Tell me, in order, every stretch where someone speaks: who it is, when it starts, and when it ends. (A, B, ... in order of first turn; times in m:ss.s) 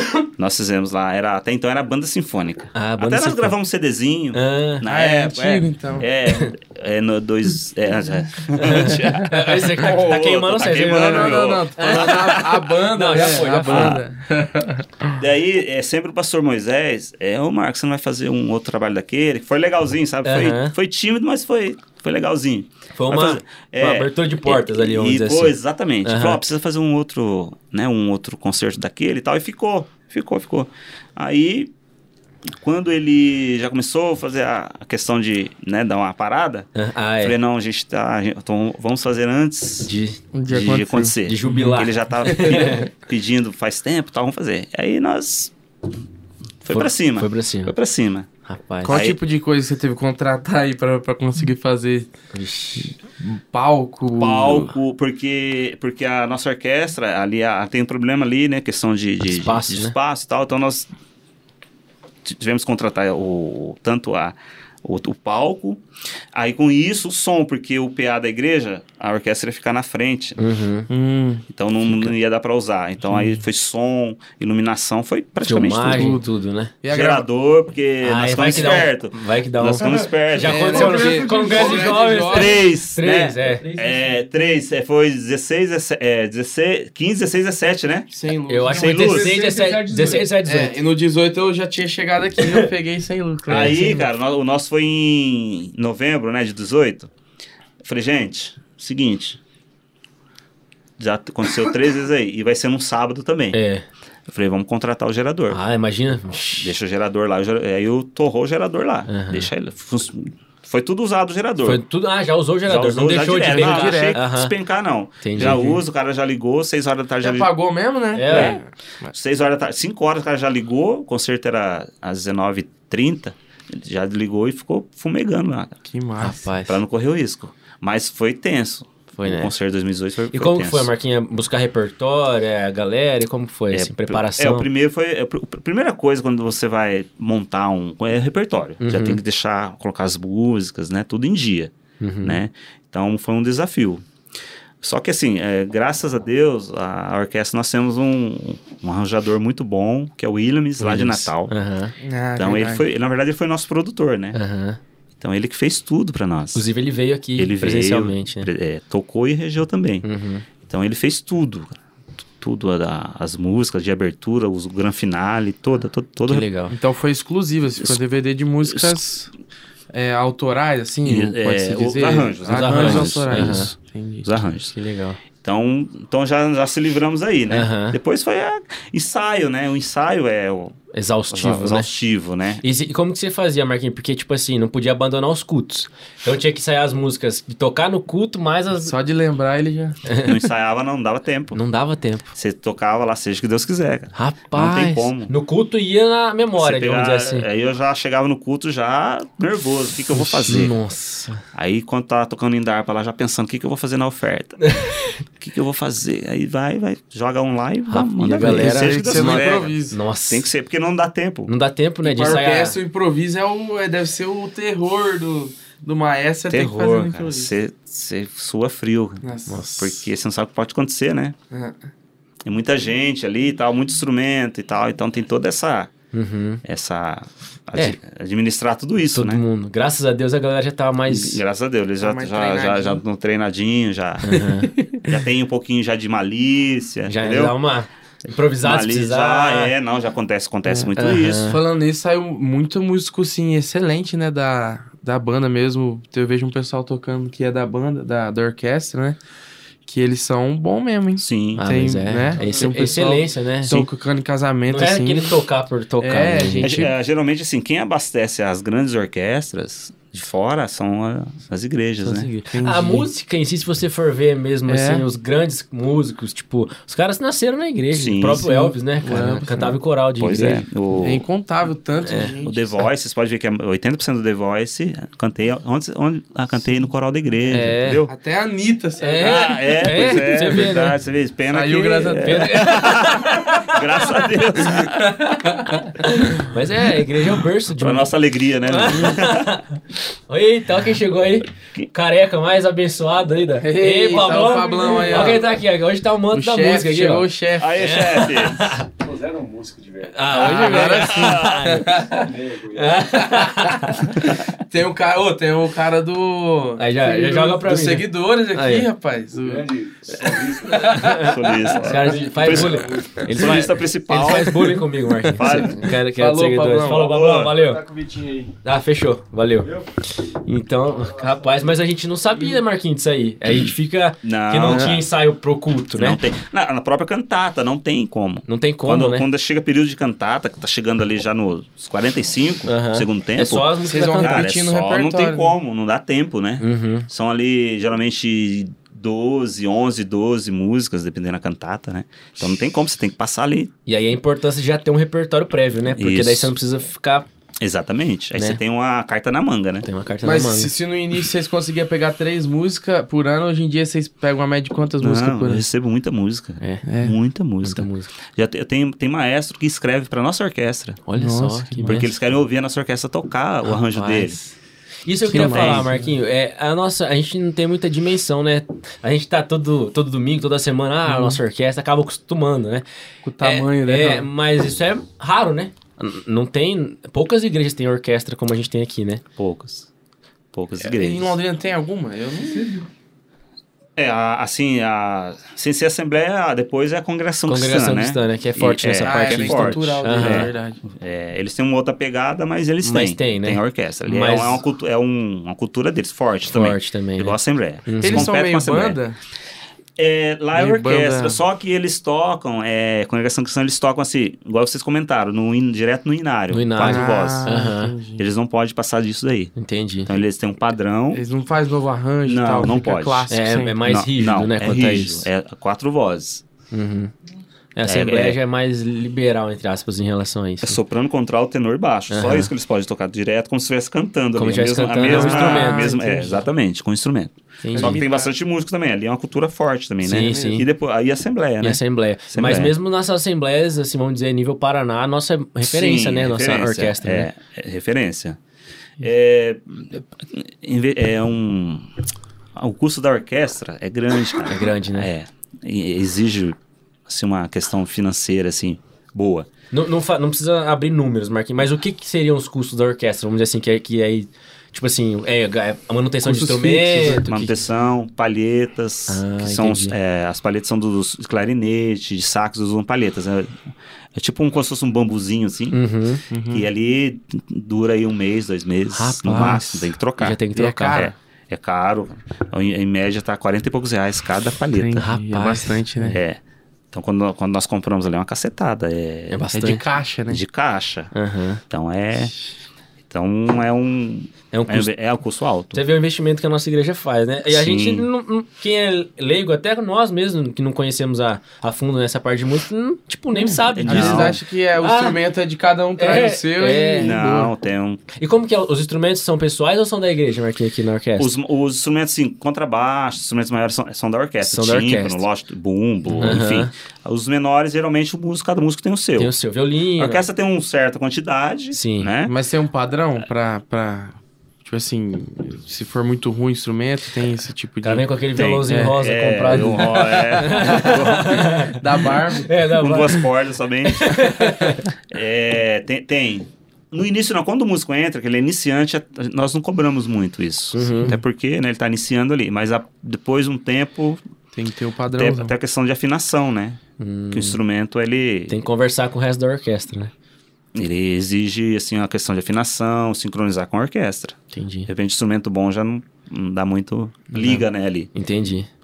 0:00.4-0:12.6 A
0:02.7-0:03.6 B
0:04.3-0:04.8 B
0:04.9-0:06.1 C
0:08.5-0:14.0 B
0:10.8-0:15.2 C
0:13.2-0:14.0 A
0:15.2-0:31.7 A
0:20.2-0:20.7 B
0:23.0-0:26.4 B
0:32.5-0:36.7 A
0:36.7-0:37.4 B
0:37.2-0:39.9 A
0:39.9-0:40.2 B
0:40.3-0:42.8 C
0:40.5-0:45.5 A
0:41.2-0:42.9 B
0:46.6-0:48.3 A
0:46.7-0:47.7 B
0:48.4-0:49.0 B
0:48.8-0:52.1 C
0:48.9-0:49.2 A
0:52.3-0:52.9 B
0:53.2-0:54.7 C
0:54.2-1:00.9 A
0:59.3-0:59.9 B
1:02.2-1:05.8 A
1:06.3-1:10.4 A
1:10.4-1:10.9 B
1:10.9-1:11.4 C
1:11.5-1:16.1 A
1:13.1-1:13.4 C
1:15.4-1:16.7 B
1:15.8-1:16.3 C
1:16.8-1:17.2 C
1:16.9-1:20.9 A
1:18.0-1:23.7 B
1:20.4-1:22.6 C
1:20.7-1:22.2 D
1:22.2-1:28.1 A
1:23.7-1:24.0 D
1:28.1-1:29.1 C
1:28.5-1:30.7 B
1:28.6-1:30.3 D
1:28.7-1:29.4 A
1:30.4-1:33.9 C
1:32.4-1:32.7 B
1:33.5-1:37.1 A
1:33.5-1:34.0 B
1:37.8-1:39.4 A
1:41.0-1:43.6 A
1:43.5-1:43.8 B
1:44.3-1:45.6 A
1:45.5-1:46.7 B
1:46.6-1:51.8 A
1:49.1-1:49.5 B
1:51.6-1:54.5 B
1:52.6-1:57.5 A
1:53.5-1:54.2 C
1:55.2-1:55.7 B
1:55.4-1:55.8 C
1:57.2-1:59.1 C
1:58.1-1:58.6 B
1:58.3-1:58.6 A
1:59.1-2:05.7 A
2:05.9-2:06.4 C
2:06.2-2:06.8 B
2:06.7-2:10.9 A
2:09.2-2:09.5 B
2:10.3-2:14.7 B
2:13.7-2:24.0 A
2:18.8-2:19.2 B
2:22.0-2:22.4 B
2:24.8-2:31.5 A
2:30.8-2:31.9 B
2:32.0-2:32.8 C
2:32.4-2:34.4 A
2:34.3-2:34.8 B
2:35.2-2:36.6 A
2:36.5-2:38.5 B
2:37.4-2:40.0 A
2:40.0-2:40.4 B
2:40.6-2:41.8 A
2:42.4-2:46.4 A
2:46.2-2:46.7 B
2:46.7-2:49.3 C
2:48.6-2:48.9 A
2:49.9-2:54.3 C
2:51.0-2:54.7 A
2:52.5-2:53.7 B
2:54.7-2:55.2 B
2:55.4-3:00.8 A
2:57.5-2:58.0 B
3:00.9-3:01.9 B
3:01.3-3:02.6 A
3:02.6-3:08.9 B
3:08.9-3:10.0 C
3:10.0-3:10.4 B
3:10.2-3:11.6 A
3:11.5-3:12.3 B
3:12.3-3:15.3 A
3:14.1-3:17.4 B
3:16.6-3:20.7 A
3:20.1-3:21.4 B
3:21.5-3:24.6 A
3:24.6-3:25.1 B
3:25.4-3:29.8 A
3:27.9-3:30.5 B
3:28.4-3:30.0 C
3:30.3-3:31.5 A
3:31.5-3:32.8 B
3:32.0-3:37.5 C
3:36.5-3:39.2 A
3:39.2-3:40.0 C
3:39.8-3:41.4 A
3:41.5-3:41.8 C
3:42.4-3:45.9 A
3:46.1-3:46.6 B
3:46.6-3:49.4 A
3:49.1-3:51.4 B
3:51.1-3:57.6 A
3:52.0-3:53.0 C
3:54.2-3:54.8 B
3:57.1-3:59.7 B
3:58.6-4:01.5 A
4:01.0-4:01.6 B
4:01.4-4:09.2 C
4:09.9-4:15.4 C
4:11.2-4:11.6 A
4:11.6-4:13.8 B
4:14.7-4:16.8 B
4:16.0-4:16.9 C
4:16.6-4:22.3 A
4:22.0-4:30.6 B
4:22.5-4:23.1 C
4:24.7-4:25.0 C
4:27.9-4:28.4 A
4:28.4-4:29.8 C
4:30.2-4:31.2 A
4:31.0-4:32.8 C
4:32.0-4:32.3 B
4:32.4-4:38.1 A
4:37.5-4:38.0 B
4:38.1-4:39.5 C
4:39.0-4:40.9 B
4:39.2-4:45.3 A
4:41.5-4:42.7 C
4:42.2-4:44.2 B
4:44.8-4:45.9 C
4:44.8-4:45.4 B
4:46.0-4:48.1 B
4:47.8-4:49.6 A
4:48.6-4:49.8 B
4:50.3-4:58.9 B
4:53.6-4:55.5 C
4:56.3-4:57.9 C
4:57.6-4:58.8 A
4:59.0-5:00.2 D
5:00.1-5:02.0 B
5:00.3-5:02.3 C
5:00.4-5:01.7 A
5:01.9-5:03.2 D
5:02.7-5:04.3 B
5:03.1-5:09.7 C
5:06.8-5:08.9 B
5:09.4-5:13.3 D
5:10.6-5:11.4 C
5:10.9-5:17.8 B
5:10.9-5:15.9 A
5:15.3-5:17.1 C
5:16.9-5:17.6 A
5:17.5-5:18.5 D
5:18.6-5:26.2 B
5:20.9-5:21.5 D
5:24.2-5:25.0 A
5:24.6-5:25.0 C
5:26.0-5:43.7 A
5:28.5-5:29.3 B
5:32.7-5:34.5 B
5:33.8-5:35.5 C
5:36.6-5:37.1 B
5:43.9-5:47.3 B
5:45.9-5:46.5 A
5:47.6-5:49.9 A
5:49.8-5:50.7 B
5:50.2-5:55.6 C
5:55.0-6:01.0 A
5:56.8-5:57.2 C
5:57.6-5:58.1 B
6:01.0-6:02.1 B
6:01.2-6:02.0 C
6:01.8-6:04.4 A
6:03.6-6:04.5 B
6:05.0-6:12.8 B
6:05.2-6:06.1 C
6:05.3-6:05.9 A
6:11.1-6:11.4 C
6:13.2-6:14.3 C
6:13.4-6:19.2 B
6:19.4-6:19.9 A
6:20.5-6:21.4 A
6:20.8-6:22.9 C
6:24.0-6:39.0 A
6:27.5-6:30.5 B
6:29.0-6:30.8 C
6:32.8-6:34.6 B
6:36.5-6:38.3 B
6:38.0-6:39.2 C
6:40.0-6:47.6 A
6:40.5-6:41.4 C
6:46.5-6:47.9 B
6:46.8-6:48.2 C
6:48.2-6:49.5 A
6:49.6-6:50.1 B
6:50.0-6:51.2 A
6:51.1-6:53.8 C
6:52.2-6:53.3 A
6:53.3-6:55.3 B
6:53.8-6:56.4 A
6:56.7-6:57.1 B
6:57.8-7:00.8 B
6:57.8-6:58.4 A
7:00.6-7:12.7 A
7:02.1-7:02.5 B
7:04.4-7:06.4 B
7:05.0-7:06.1 C
7:07.6-7:08.0 B
7:07.7-7:08.3 C
7:10.0-7:10.6 B
7:10.1-7:10.6 C
7:11.6-7:17.3 B
7:15.6-7:18.4 A
7:19.0-7:21.9 A
7:22.6-7:29.5 A
7:24.5-7:25.1 B
7:29.7-7:37.5 B
7:36.2-7:37.3 C
7:37.2-7:43.6 A
7:39.1-7:39.9 B
7:44.1-7:45.8 A
7:45.7-7:46.2 B
7:46.3-7:46.7 C
7:46.5-7:50.4 A
7:48.9-7:51.1 B
7:49.3-7:49.6 C
7:50.6-7:51.1 C
7:50.9-7:55.1 A
7:54.7-7:56.2 C
7:55.0-7:56.2 B
7:56.1-7:56.4 A
7:56.9-7:59.4 A
7:59.3-7:59.8 B
7:59.5-8:00.4 C
8:00.3-8:01.1 A
8:01.1-8:01.6 B
8:01.7-8:02.3 A
8:03.1-8:05.8 A
8:04.5-8:04.9 B
8:05.7-8:15.2 B
8:07.5-8:08.0 A
8:13.3-8:17.5 C
8:13.6-8:14.4 A
8:16.0-8:17.2 B
8:17.0-8:18.0 A
8:18.2-8:21.3 B
8:21.2-8:29.3 A
8:24.4-8:25.2 B
8:26.2-8:26.7 B
8:29.2-8:30.2 B
8:30.0-8:32.3 A
8:31.7-8:32.1 B
8:32.2-8:38.1 C
8:37.8-8:43.2 B
8:38.4-8:41.4 A
8:38.6-8:39.0 C
8:39.5-8:42.7 C
8:42.7-8:54.2 A
8:43.8-8:44.9 B
8:50.7-8:51.2 B
8:54.6-8:55.5 C
8:55.1-8:56.8 A
8:57.0-8:57.6 B
8:57.3-8:58.6 A
8:58.5-9:00.1 B
9:00.7-9:04.4 A
9:04.5-9:04.9 B
9:04.9-9:08.1 A
9:08.1-9:08.7 B